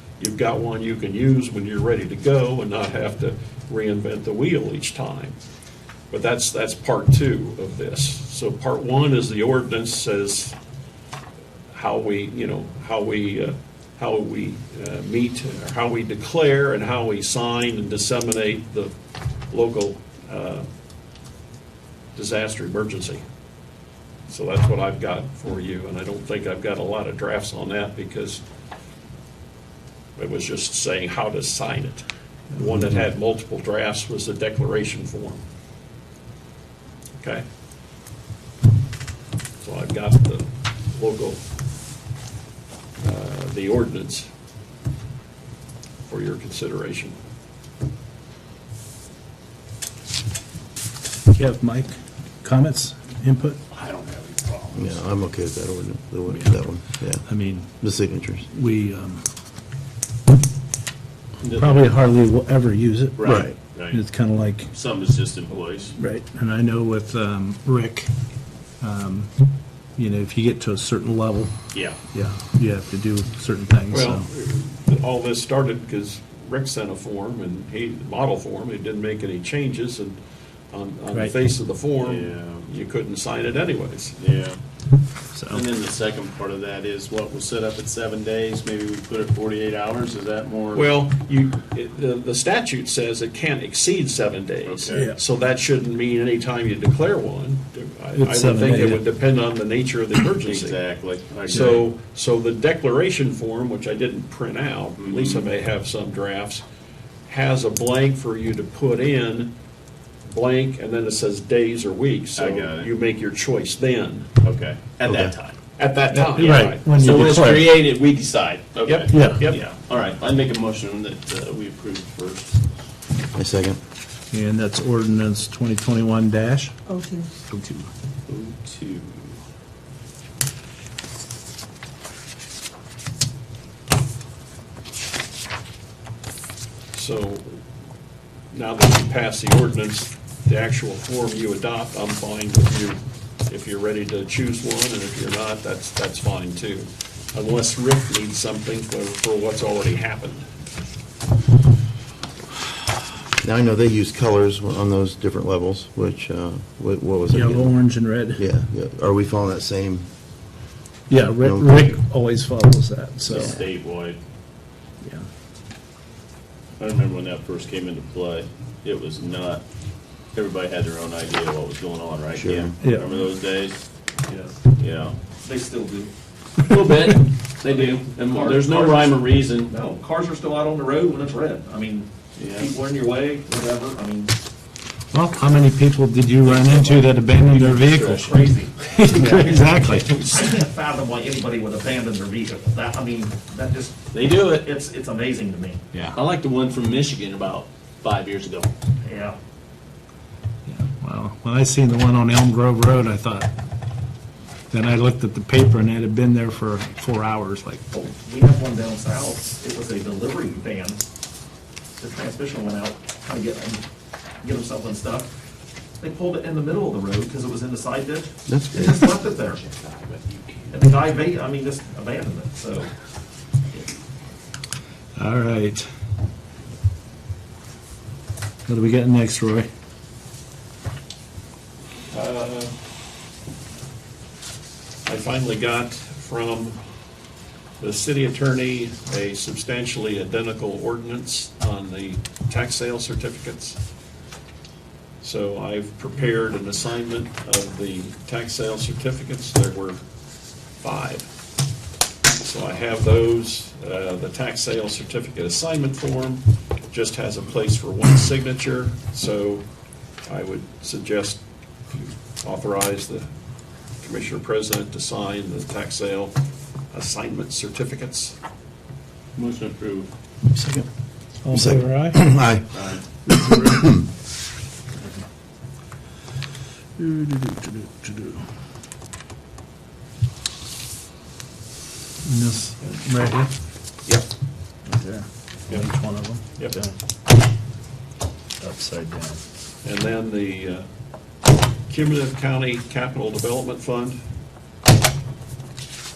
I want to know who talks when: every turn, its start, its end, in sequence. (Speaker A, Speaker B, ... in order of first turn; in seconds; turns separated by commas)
Speaker A: 0.2-5.4, Speaker A: 6.1-10.6, Speaker A: 11.7-18.9, Speaker A: 19.5-20.7, Speaker A: 22.2-23.2, Speaker A: 24.3-28.4, Speaker A: 30.2-35.4, Speaker B: 32.6-33.0, Speaker A: 39.6-41.4, Speaker A: 43.0-44.3, Speaker A: 46.1-47.2, Speaker C: 51.3-53.6, Speaker D: 53.7-55.0, Speaker B: 54.7-58.5, Speaker C: 56.3-57.7, Speaker C: 58.5-59.3, Speaker D: 61.4-62.0, Speaker C: 61.5-64.7, Speaker D: 63.2-66.0, Speaker B: 63.2-63.5, Speaker C: 66.0-68.1, Speaker C: 68.8-69.3, Speaker C: 70.0-71.5, Speaker D: 71.7-72.0, Speaker C: 72.1-74.3, Speaker A: 73.9-80.2, Speaker A: 80.7-84.2, Speaker D: 82.0-82.7, Speaker D: 84.2-84.6, Speaker C: 85.3-85.6, Speaker D: 85.5-90.9, Speaker A: 90.7-100.8, Speaker D: 94.7-95.1, Speaker C: 98.2-99.0, Speaker D: 100.5-101.8, Speaker A: 101.4-106.6, Speaker D: 105.0-105.5, Speaker A: 107.3-109.5, Speaker A: 110.3-114.3, Speaker D: 112.3-112.9, Speaker D: 114.4-115.6, Speaker B: 115.1-115.3, Speaker A: 115.8-116.9, Speaker C: 116.2-117.8, Speaker D: 116.3-122.6, Speaker A: 118.8-119.6, Speaker C: 119.1-119.5, Speaker B: 123.3-123.8, Speaker C: 124.3-126.8, Speaker C: 127.5-127.9, Speaker D: 128.3-129.4, Speaker A: 136.9-137.6, Speaker A: 138.5-150.5, Speaker B: 153.4-160.1, Speaker C: 157.3-158.4, Speaker C: 161.1-163.6, Speaker B: 161.4-162.0, Speaker D: 163.3-164.2, Speaker D: 166.8-169.7, Speaker D: 170.3-175.2, Speaker B: 172.4-172.7, Speaker C: 172.8-173.1, Speaker E: 175.3-176.1, Speaker D: 176.7-179.8, Speaker E: 177.7-184.3, Speaker D: 182.4-182.7, Speaker C: 185.1-190.3, Speaker D: 186.4-188.3, Speaker E: 188.0-195.8, Speaker D: 189.2-190.2, Speaker D: 194.1-194.6, Speaker D: 195.9-198.7, Speaker E: 199.0-199.4, Speaker C: 200.7-203.5, Speaker C: 204.7-207.8, Speaker E: 207.9-211.0, Speaker E: 212.0-213.8, Speaker E: 214.4-215.3, Speaker E: 216.0-219.7, Speaker B: 218.5-219.0, Speaker D: 219.6-221.0, Speaker E: 220.7-222.9, Speaker C: 225.2-225.9, Speaker C: 228.7-229.7, Speaker A: 232.1-232.7, Speaker A: 235.1-236.8, Speaker A: 237.8-243.8, Speaker A: 245.2-250.0, Speaker A: 250.8-251.3, Speaker A: 252.4-259.6, Speaker A: 260.3-263.3, Speaker A: 264.0-266.4, Speaker A: 266.9-268.4, Speaker D: 269.4-270.1, Speaker C: 270.5-270.9, Speaker C: 271.4-272.5, Speaker B: 271.5-274.0, Speaker D: 272.7-273.1, Speaker C: 273.3-273.9, Speaker C: 275.0-275.2, Speaker C: 277.0-278.4, Speaker C: 282.2-283.5, Speaker C: 284.9-286.9, Speaker A: 285.7-286.8, Speaker C: 288.6-289.4, Speaker A: 289.8-290.9, Speaker A: 291.9-294.2